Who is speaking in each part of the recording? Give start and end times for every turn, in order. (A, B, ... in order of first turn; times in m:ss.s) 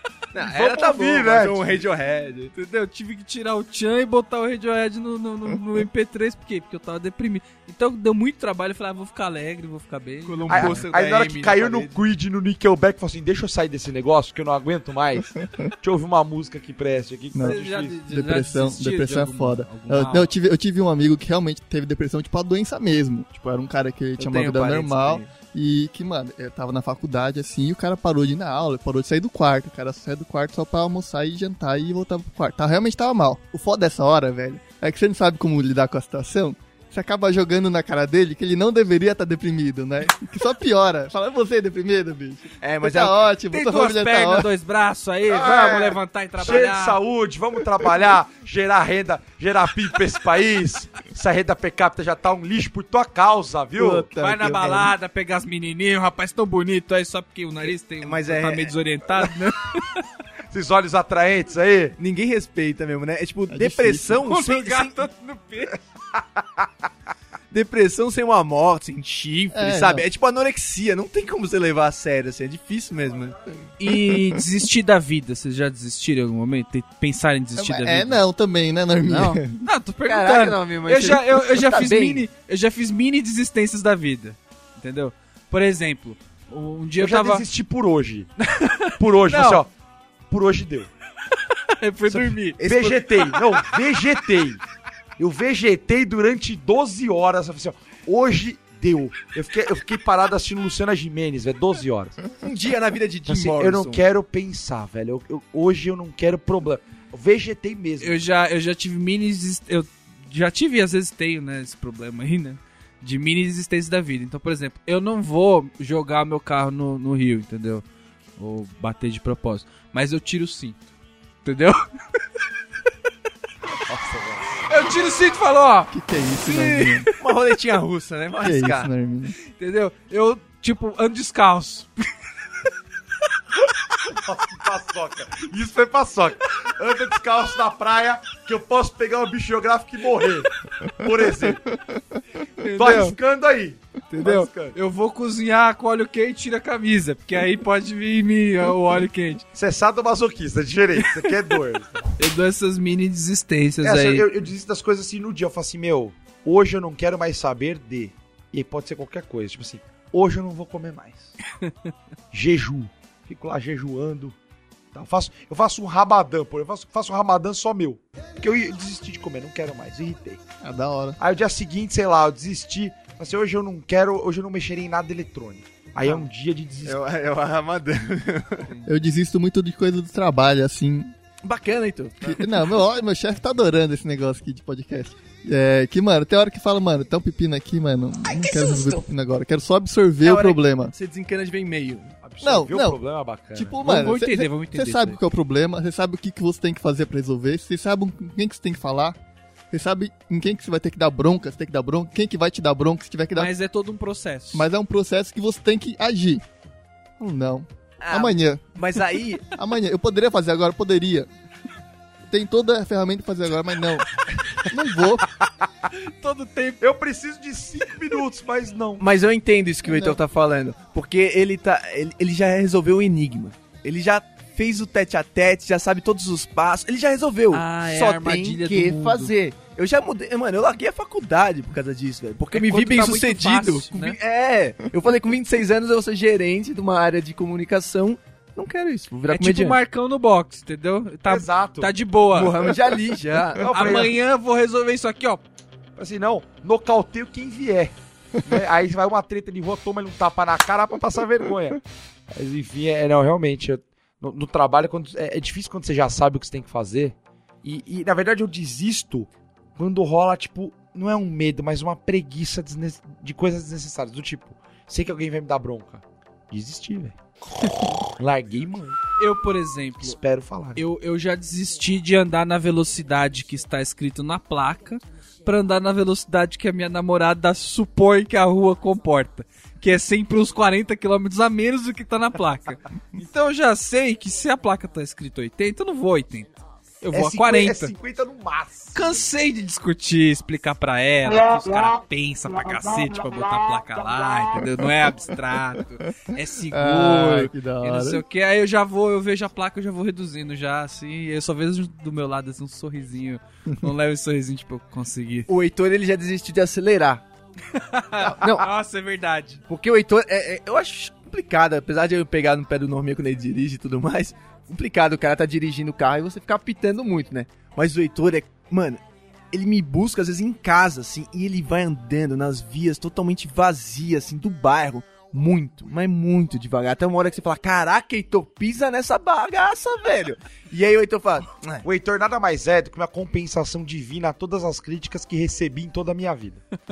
0:00.3-0:02.5 A
0:00.4-0:01.6 B
0:02.5-0:10.8 C
0:10.2-0:12.0 A
0:10.5-0:18.0 B
0:17.3-0:17.6 D
0:17.4-0:20.3 C
0:18.1-0:44.5 D
0:24.2-0:25.3 A
0:42.6-0:43.3 A
0:43.5-0:47.0 C
0:45.3-0:54.1 B
0:53.8-0:54.9 D
0:54.2-1:00.0 C
0:58.0-0:58.7 A
1:00.5-1:02.0 B
1:02.0-1:05.0 A
1:03.5-1:04.2 D
1:04.2-1:05.8 C
1:07.5-1:13.4 A
1:09.5-1:10.0 D
1:13.8-1:18.2 C
1:14.1-1:14.4 D
1:17.6-1:19.6 D
1:19.2-1:27.4 C
1:20.0-1:22.2 A
1:27.0-1:28.3 B
1:28.4-1:29.6 C
1:29.0-1:29.7 B
1:30.3-1:30.9 B
1:31.8-1:32.6 C
1:32.1-1:34.6 B
1:32.6-1:33.4 A
1:35.2-1:42.2 B
1:42.3-1:44.0 A
1:43.3-1:48.2 B
1:48.0-1:57.8 C
1:58.4-2:00.8 C
2:01.4-2:01.8 C
2:03.8-2:04.5 B
2:04.6-2:07.0 C
2:05.9-2:07.1 D
2:07.2-2:08.9 A
2:08.4-2:09.4 D
2:09.5-2:12.1 C
2:14.0-2:21.7 B
2:22.6-2:23.2 C
2:22.8-2:24.8 B
2:24.1-2:29.4 C
2:29.5-2:32.1 B
2:32.2-2:34.3 C
2:33.8-2:41.4 B
2:42.3-2:44.3 B
2:44.9-2:50.4 B
2:50.6-2:51.2 D
2:51.2-2:57.0 B
2:56.8-2:58.8 A
2:58.8-3:01.1 D
3:01.4-3:02.4 A
3:02.2-3:10.9 D
3:08.4-3:09.0 A
3:10.2-3:12.1 A
3:12.2-3:13.8 B
3:12.4-3:13.0 D
3:13.5-3:19.2 D
3:13.8-3:15.2 C
3:19.7-3:23.5 D
3:23.3-3:24.7 C
3:24.5-3:26.4 D
3:27.2-3:29.0 D
3:28.0-3:29.4 A
3:29.5-3:31.3 D
3:32.2-3:34.1 D
3:34.6-3:35.2 D
3:36.0-3:36.8 C
3:36.8-3:39.0 B
3:39.0-3:59.8 A
3:39.8-3:40.2 D
3:47.5-3:49.3 C
3:52.5-3:54.2 C
3:59.3-4:02.7 C
4:01.2-4:01.9 B
4:02.3-4:04.1 A
4:03.6-4:04.1 B
4:03.7-4:05.4 C
4:06.0-4:11.8 B
4:12.3-4:29.0 B
4:29.2-4:30.2 C
4:30.0-4:30.8 B
4:30.8-4:46.5 C
4:47.0-4:47.9 C
4:47.1-4:49.2 B
4:48.9-5:05.5 C
4:56.7-4:58.2 D
5:05.5-5:07.2 A
5:07.7-5:09.6 C
5:08.3-5:08.7 A
5:09.7-5:31.9 A
5:31.8-5:36.6 B